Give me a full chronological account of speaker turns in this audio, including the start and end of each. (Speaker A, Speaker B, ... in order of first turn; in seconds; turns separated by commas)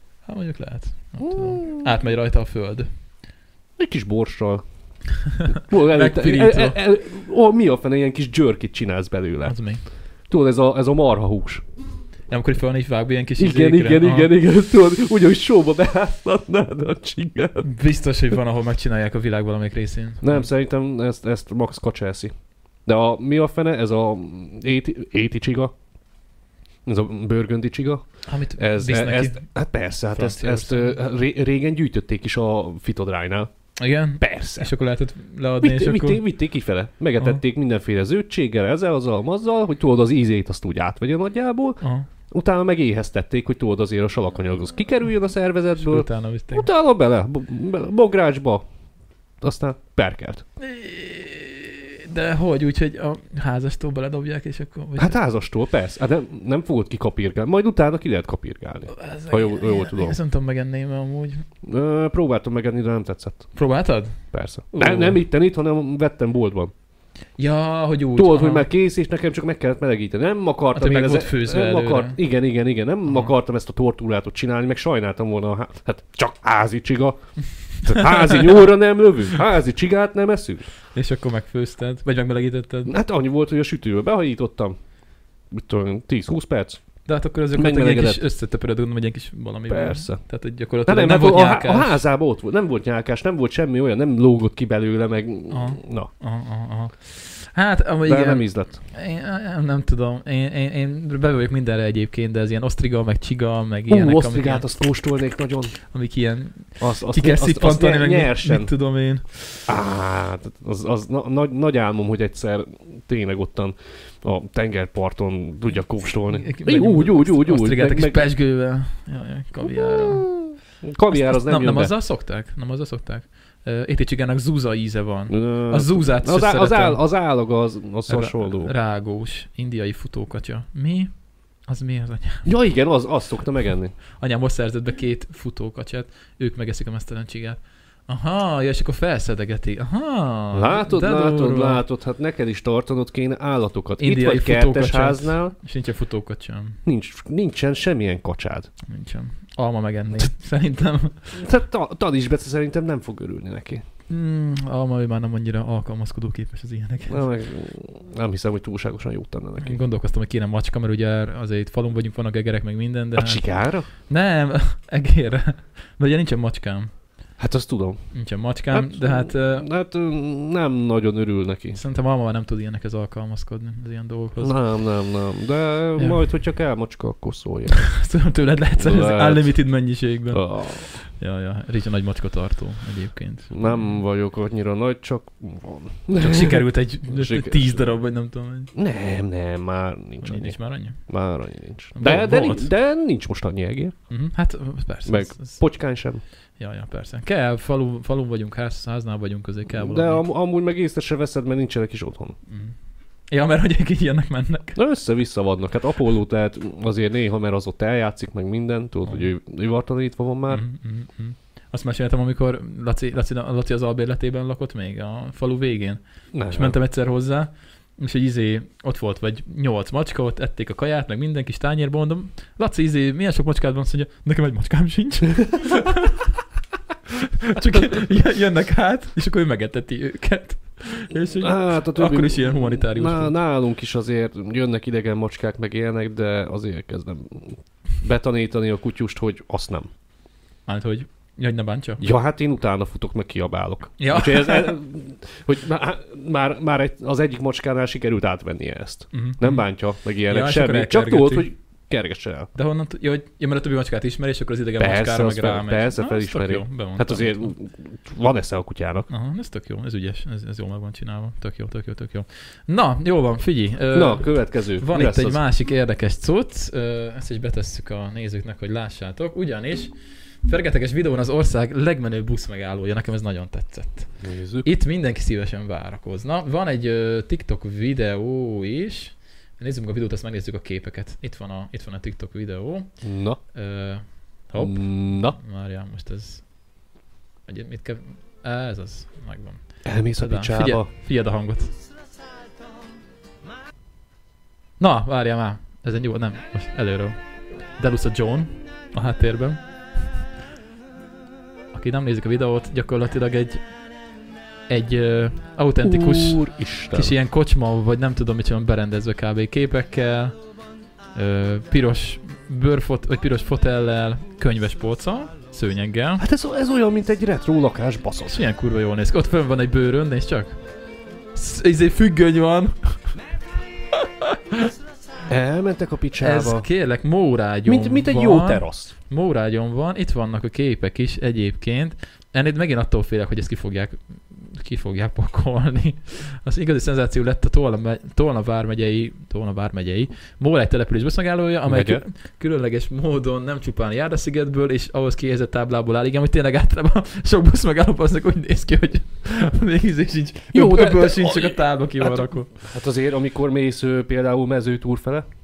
Speaker A: 0.2-2.9, Speaker B: 1.2-1.8, Speaker B: 3.8-4.6, Speaker A: 5.5-6.8, Speaker B: 5.7-9.5, Speaker A: 9.4-9.8, Speaker B: 10.3-11.6, Speaker A: 12.3-14.3, Speaker B: 13.4-17.6, Speaker A: 17.6-20.4, Speaker B: 20.2-22.3, Speaker B: 22.9-25.7, Speaker B: 26.9-28.0, Speaker A: 28.3-29.4, Speaker B: 28.6-33.5, Speaker A: 30.1-30.9, Speaker A: 33.8-36.2, Speaker B: 34.2-34.7, Speaker B: 35.6-41.8, Speaker A: 41.8-42.1, Speaker B: 42.3-48.6, Speaker A: 45.8-46.7, Speaker B: 49.4-50.4, Speaker A: 50.6-55.1, Speaker B: 55.0-60.2, Speaker A: 58.9-61.5, Speaker B: 61.6-63.5, Speaker A: 63.5-65.2, Speaker B: 64.3-66.7, Speaker A: 67.4-68.7, Speaker B: 68.2-77.2, Speaker A: 70.7-72.2, Speaker B: 77.8-80.7, Speaker A: 77.9-78.2, Speaker A: 80.9-82.9, Speaker B: 82.8-84.8, Speaker B: 85.5-86.8, Speaker A: 87.0-92.0, Speaker B: 87.5-88.2, Speaker B: 89.7-90.2, Speaker B: 90.8-96.1, Speaker A: 95.5-104.7, Speaker B: 98.0-98.8, Speaker B: 103.9-105.8, Speaker A: 105.9-109.5, Speaker B: 106.8-108.7, Speaker B: 109.7-118.3, Speaker A: 116.3-120.4, Speaker B: 119.6-121.9, Speaker A: 121.1-127.0, Speaker B: 125.3-128.7, Speaker A: 128.1-132.5, Speaker B: 132.4-133.9, Speaker A: 134.2-141.8, Speaker B: 140.5-145.5, Speaker A: 144.0-146.8, Speaker B: 146.8-148.7, Speaker A: 148.9-151.4, Speaker B: 151.3-153.8, Speaker A: 154.1-157.2, Speaker B: 157.1-159.8, Speaker A: 159.6-163.5, Speaker B: 163.2-163.9, Speaker A: 164.0-166.9, Speaker B: 167.4-168.0, Speaker A: 168.1-169.7, Speaker B: 168.7-171.8, Speaker A: 171.7-174.6, Speaker B: 174.4-177.9, Speaker A: 177.8-183.9, Speaker B: 178.8-179.6, Speaker B: 180.3-180.9, Speaker B: 183.5-187.9, Speaker A: 186.2-188.7, Speaker B: 188.7-194.0, Speaker A: 190.2-191.0, Speaker A: 191.9-192.7, Speaker A: 194.1-195.6, Speaker B: 195.1-196.2, Speaker A: 196.6-200.2, Speaker B: 199.7-202.3, Speaker A: 202.5-202.7, Speaker A: 203.3-204.8, Speaker B: 204.8-210.6, Speaker A: 210.5-226.2, Speaker B: 216.3-216.8, Speaker A: 227.4-233.3, Speaker B: 231.4-239.9, Speaker A: 240.7-242.0, Speaker B: 242.0-252.5, Speaker A: 244.0-244.8, Speaker A: 249.1-249.6, Speaker A: 250.3-251.5, Speaker A: 252.5-257.5, Speaker B: 254.8-259.1, Speaker A: 259.1-286.5, Speaker B: 263.9-265.4, Speaker B: 274.2-274.7, Speaker B: 283.0-283.4, Speaker B: 284.6-285.4, Speaker A: 287.4-291.8, Speaker B: 289.8-290.9, Speaker A: 294.8-297.2, Speaker A: 297.7-299.6, Speaker A: 301.7-303.8, Speaker A: 304.7-310.4, Speaker B: 305.8-307.1, Speaker A: 311.1-316.2, Speaker B: 316.2-318.3, Speaker A: 318.3-320.6, Speaker A: 321.3-323.1, Speaker A: 323.9-324.7, Speaker B: 325.3-326.7, Speaker A: 326.2-352.5, Speaker B: 327.6-328.9, Speaker B: 341.7-342.0, Speaker B: 350.5-355.2